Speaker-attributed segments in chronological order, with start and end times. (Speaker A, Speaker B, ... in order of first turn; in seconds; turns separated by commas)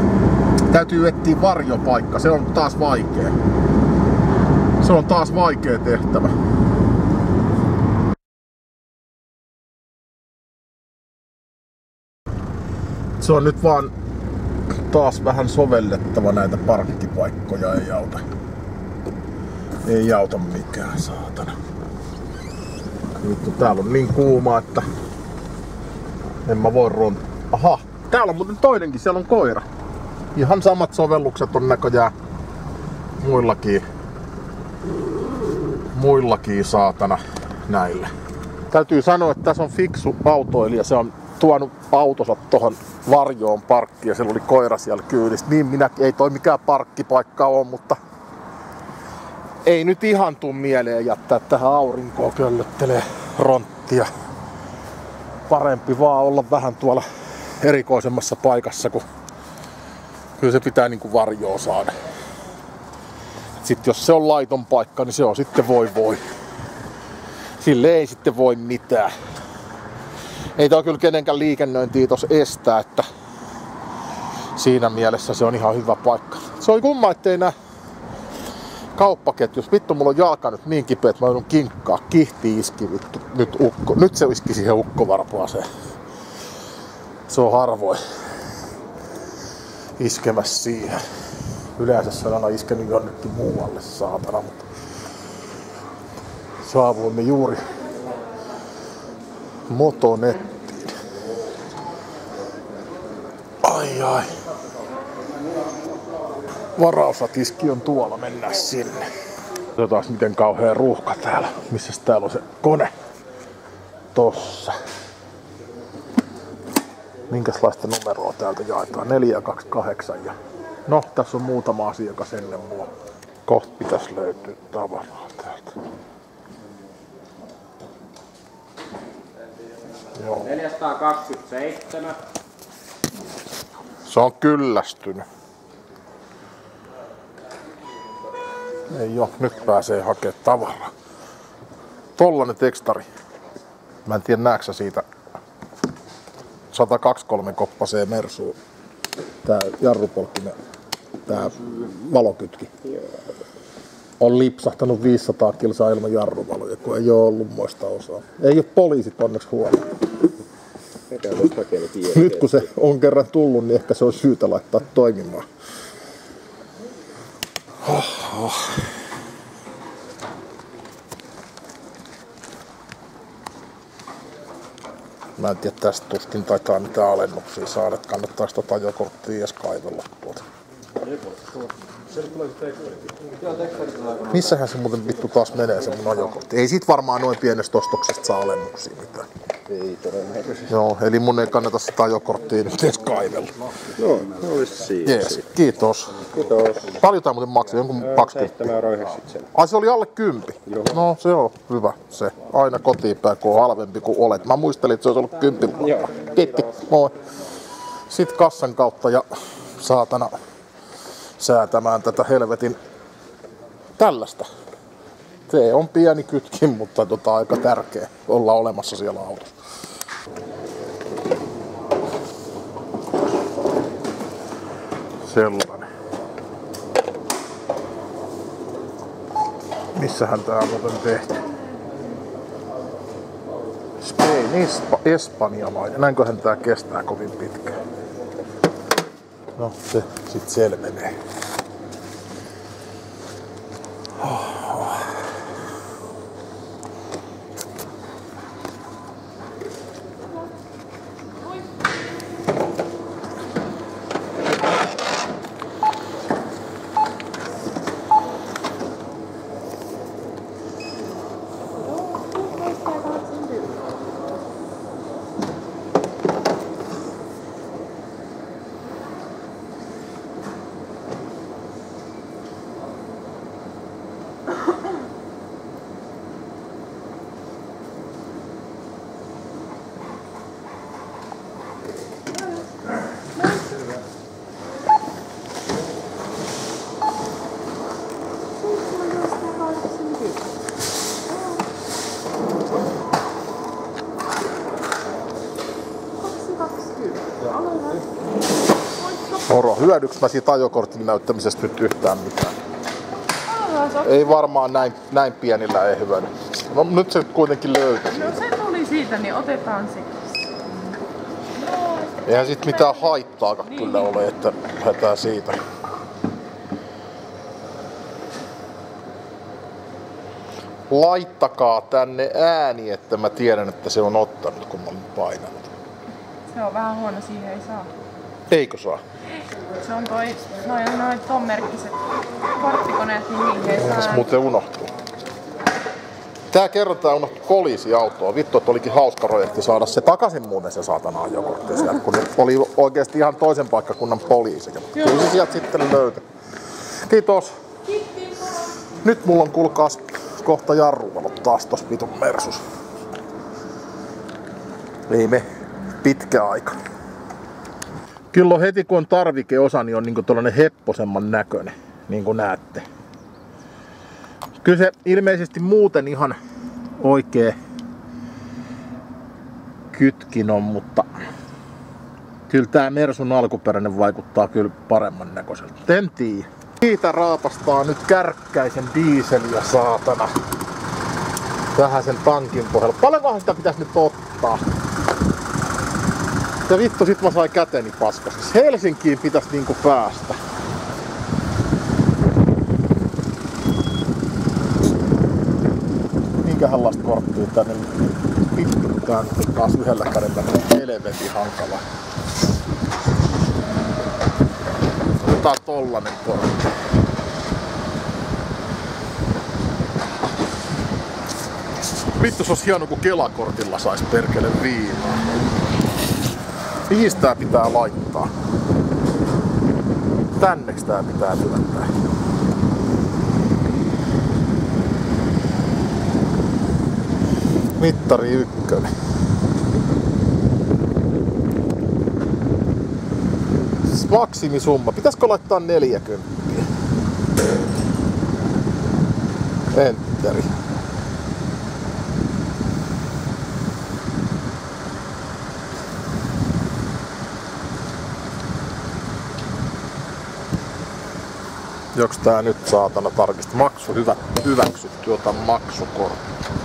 Speaker A: 0.7-3.3, Speaker A: 4.8-6.3, Speaker A: 13.2-13.9, Speaker A: 14.9-18.2, Speaker A: 19.8-21.6, Speaker A: 23.1-24.9, Speaker A: 26.4-29.6, Speaker A: 30.3-32.1, Speaker A: 33.2-33.8, Speaker A: 35.9-38.1, Speaker A: 38.7-48.0, Speaker A: 49.6-54.1, Speaker A: 55.5-57.1, Speaker A: 57.6-59.0, Speaker A: 60.4-61.9, Speaker A: 63.6-66.2, Speaker A: 67.6-69.1, Speaker A: 70.5-73.1, Speaker A: 74.5-77.5, Speaker A: 79.0-85.7, Speaker A: 87.3-88.0, Speaker A: 90.0-91.0, Speaker A: 91.8-94.7, Speaker A: 96.6-97.6, Speaker A: 99.7-100.5, Speaker A: 103.6-104.3, Speaker A: 106.8-109.1, Speaker A: 109.8-112.9, Speaker A: 114.1-114.8, Speaker A: 117.3-122.9, Speaker A: 123.5-125.8, Speaker A: 130.2-130.4, Speaker B: 130.4-132.2, Speaker A: 134.1-135.2, Speaker A: 138.9-140.9, Speaker A: 142.2-143.0, Speaker A: 144.1-145.0, Speaker A: 146.7-148.6, Speaker A: 149.4-150.6, Speaker A: 151.3-152.7, Speaker A: 154.2-159.8, Speaker B: 161.1-162.7, Speaker A: 162.1-165.4, Speaker A: 167.8-168.8, Speaker A: 175.4-180.4, Speaker A: 184.2-189.3, Speaker B: 189.7-190.7, Speaker A: 190.7-193.5, Speaker B: 193.9-195.4, Speaker A: 195.0-196.2, Speaker B: 196.3-197.0, Speaker A: 196.9-198.7, Speaker B: 198.0-199.5, Speaker A: 199.5-207.1, Speaker A: 208.1-209.3, Speaker A: 209.8-210.4, Speaker A: 211.4-212.8, Speaker A: 214.0-214.5, Speaker A: 215.5-219.5, Speaker A: 225.2-225.9, Speaker A: 229.9-231.3, Speaker A: 234.0-237.8, Speaker A: 239.6-241.2, Speaker A: 244.2-245.1, Speaker C: 261.8-263.8, Speaker C: 288.6-290.4, Speaker C: 296.2-298.0, Speaker A: 299.4-302.6, Speaker C: 303.4-304.3, Speaker A: 304.0-308.4, Speaker C: 308.1-310.5, Speaker C: 311.6-313.2, Speaker A: 312.2-315.6, Speaker C: 313.8-314.1, Speaker A: 320.9-325.8, Speaker C: 326.5-327.9, Speaker A: 328.5-329.0, Speaker C: 329.8-332.0, Speaker C: 332.5-334.2, Speaker A: 333.8-334.9, Speaker A: 336.5-346.2, Speaker A: 347.1-347.5, Speaker A: 349.0-352.6, Speaker A: 355.1-355.4, Speaker A: 356.0-356.8, Speaker A: 358.3-362.9, Speaker A: 364.6-366.4, Speaker A: 367.0-367.6, Speaker A: 369.9-371.1, Speaker A: 372.5-380.3, Speaker A: 381.8-384.6, Speaker A: 386.7-390.4, Speaker A: 396.4-397.9, Speaker A: 398.5-401.8, Speaker A: 405.2-406.6, Speaker A: 412.2-415.2, Speaker A: 416.9-418.3, Speaker A: 420.4-421.9, Speaker A: 427.8-428.9, Speaker A: 433.9-436.7, Speaker A: 439.7-440.5, Speaker A: 451.9-456.2